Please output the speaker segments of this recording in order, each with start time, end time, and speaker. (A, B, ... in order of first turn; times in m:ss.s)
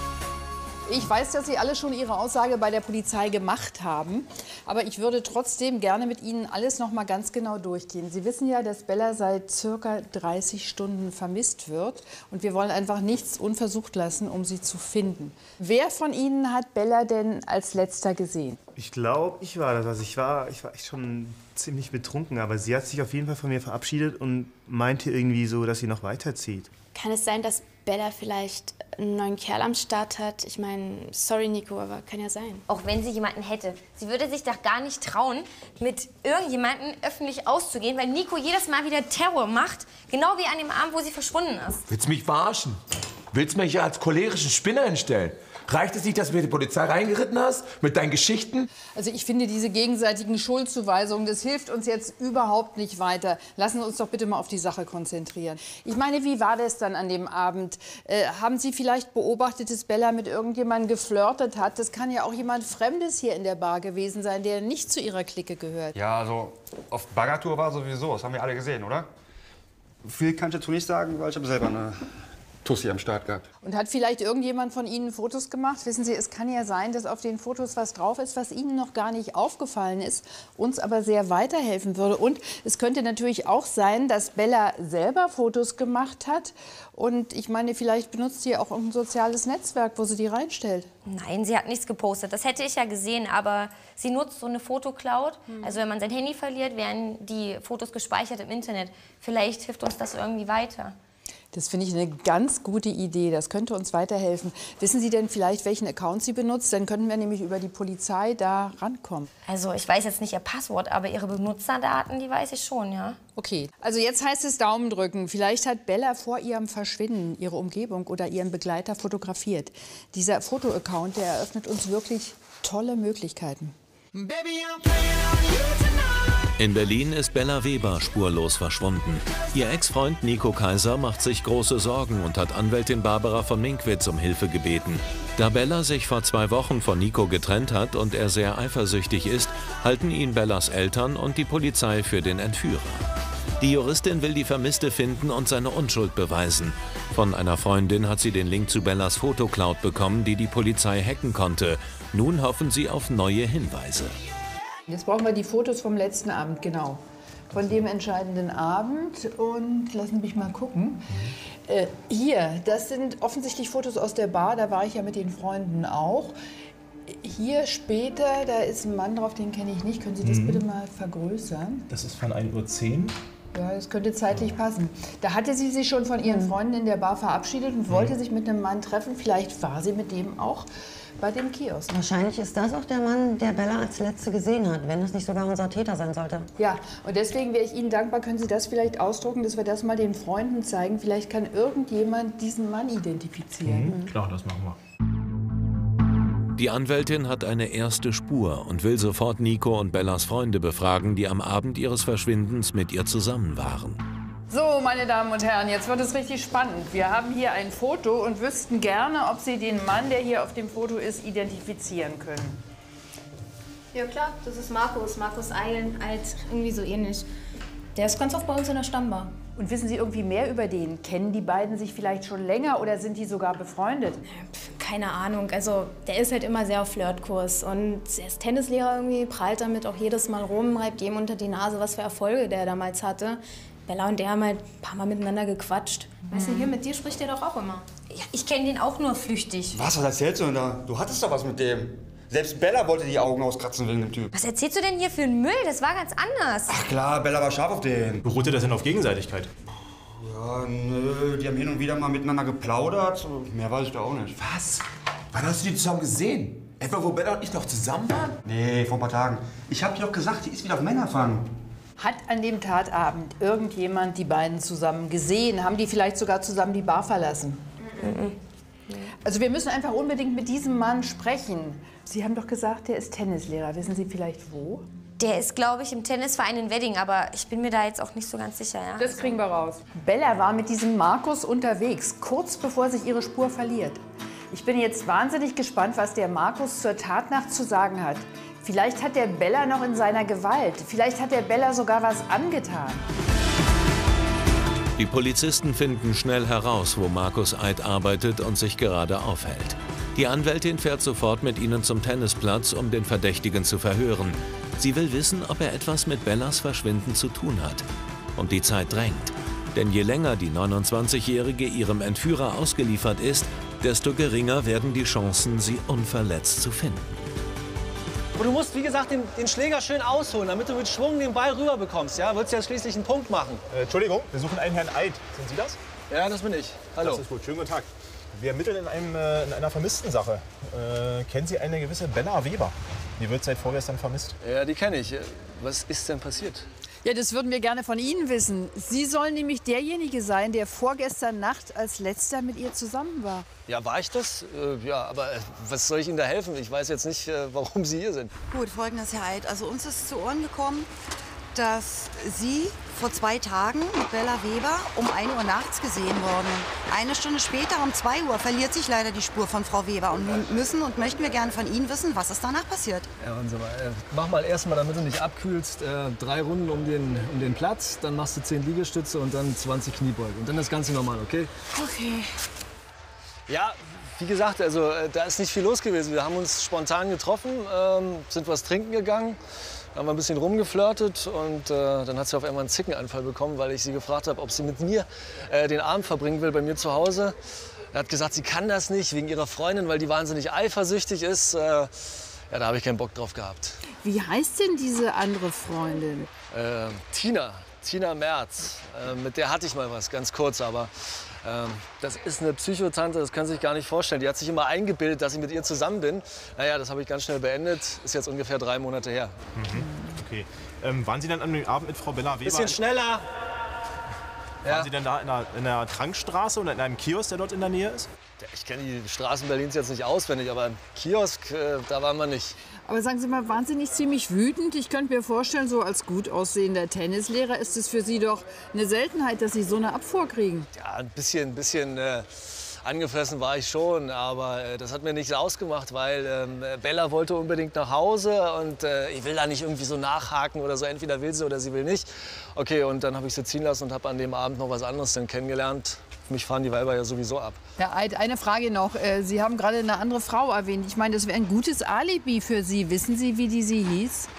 0:00.9-0:18.6 A
0:18.8-0:26.7 B
0:26.9-0:32.6 C
0:32.7-0:41.9 D
0:41.9-0:42.8 E
0:43.3-0:48.7 E
0:49.0-1:06.0 A
1:06.0-1:09.1 F
1:10.0-1:12.1 F
1:12.6-1:13.5 F
1:13.6-1:30.9 A
1:31.0-1:41.0 D
1:41.5-1:49.3 A
1:49.5-1:53.2 D
1:53.4-2:03.7 A
2:06.6-2:23.1 G
2:23.6-2:34.2 G
2:34.9-2:37.0 A
2:37.5-2:41.0 A
2:41.7-2:46.4 A
2:47.1-2:51.9 A
2:50.2-2:50.6 H
2:51.9-2:53.2 H
2:53.5-3:00.7 A
3:01.2-3:01.9 A
3:01.9-3:06.5 I
3:06.6-3:13.9 A
3:13.6-3:14.8 H
3:16.6-3:24.0 G
3:24.5-3:32.6 A
3:33.9-3:37.3 C
3:38.0-3:39.3 C
3:39.6-3:44.2 A
3:44.3-3:57.9 C
3:58.1-3:59.8 D
3:59.7-4:04.3 F
4:04.3-4:06.7 D
4:06.7-4:08.2 F
4:08.2-4:09.5 H
4:10.0-4:14.4 F
4:14.4-4:14.8 E
4:15.3-4:18.4 E
4:18.4-4:21.5 F
4:22.0-4:27.6 A
4:28.0-4:28.4 D
4:29.2-4:34.8 A
4:35.2-4:39.4 D
4:39.0-4:53.1 A
4:55.0-5:17.3 G
5:18.4-5:23.6 J
5:23.7-5:25.8 H
5:26.1-5:27.2 J
5:27.0-5:34.4 H
5:34.4-5:36.7 J
5:37.0-5:43.5 A
5:43.7-5:48.3 J
5:48.5-5:50.9 K
5:51.5-6:03.1 K
6:03.2-6:11.5 J
6:13.5-6:19.4 J
6:19.9-6:27.4 J
6:27.9-6:33.8 J
6:34.0-6:36.3 A
6:36.5-6:49.4 J
6:49.6-6:52.8 H
6:52.4-6:53.2 J
6:54.6-6:54.9 J
6:54.7-6:58.1 H
6:58.4-7:02.6 J
7:02.9-7:10.7 A
7:10.7-7:27.6 J
7:27.8-7:34.3 A